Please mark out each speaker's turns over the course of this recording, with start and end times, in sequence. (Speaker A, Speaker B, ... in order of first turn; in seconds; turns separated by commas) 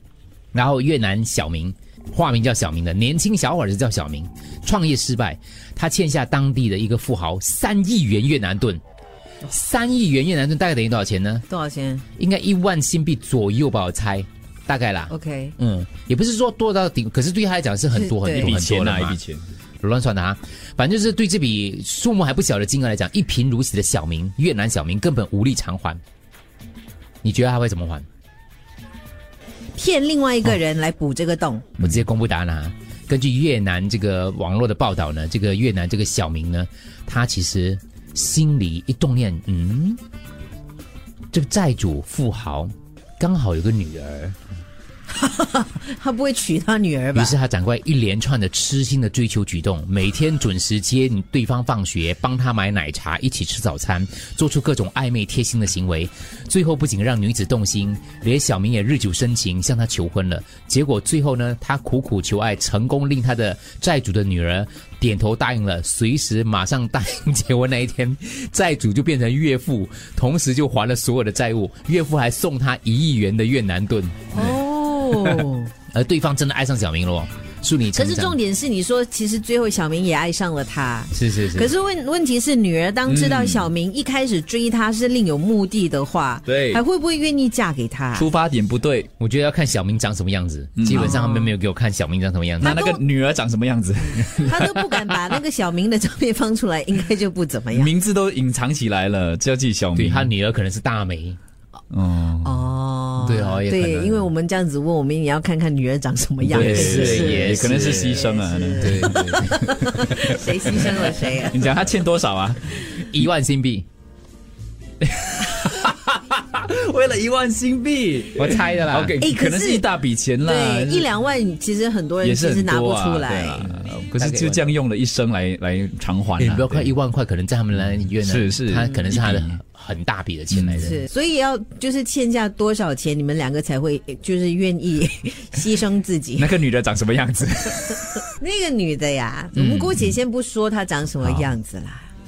Speaker A: 0.5-8.8, Speaker A: 9.5-11.4, Speaker B: 11.5-12.0, Speaker A: 12.2-19.2, Speaker B: 15.1-15.6, Speaker B: 17.9-18.5, Speaker C: 18.4-19.4, Speaker A: 19.8-26.0, Speaker A: 27.2-28.0, Speaker B: 29.8-31.7, Speaker A: 31.8-40.0, Speaker A: 41.3-44.4, Speaker B: 45.1-47.4, Speaker A: 47.1-74.6, Speaker B: 74.3-75.7, Speaker A: 75.2-78.4, Speaker B: 77.9-88.3, Speaker A: 81.1-81.7, Speaker C: 83.1-83.7, Speaker C: 86.5-86.8, Speaker C: 88.1-89.1, Speaker A: 89.2-92.8, Speaker C: 90.8-91.2, Speaker B: 90.9-91.5, Speaker B: 92.6-93.0, Speaker C: 92.6-95.3, Speaker B: 94.1-97.9, Speaker C: 97.7-100.3, Speaker A: 100.0-101.4, Speaker C: 101.9-102.7, Speaker B: 102.4-111.6, Speaker A: 103.2-104.2, Speaker C: 106.5-112.8, Speaker A: 106.5-108.2, Speaker A: 108.8-109.5, Speaker A: 113.0-113.8, Speaker C: 115.0-121.1, Speaker A: 118.3-119.2, Speaker B: 119.2-119.9, Speaker B: 120.4-123.7, Speaker C: 122.2-126.9, Speaker A: 124.1-124.6, Speaker A: 126.4-131.0, Speaker C: 128.2-129.6, Speaker C: 130.5-130.9, Speaker B: 130.8-136.5, Speaker C: 136.4-138.2, Speaker B: 138.3-142.1, Speaker A: 139.6-139.9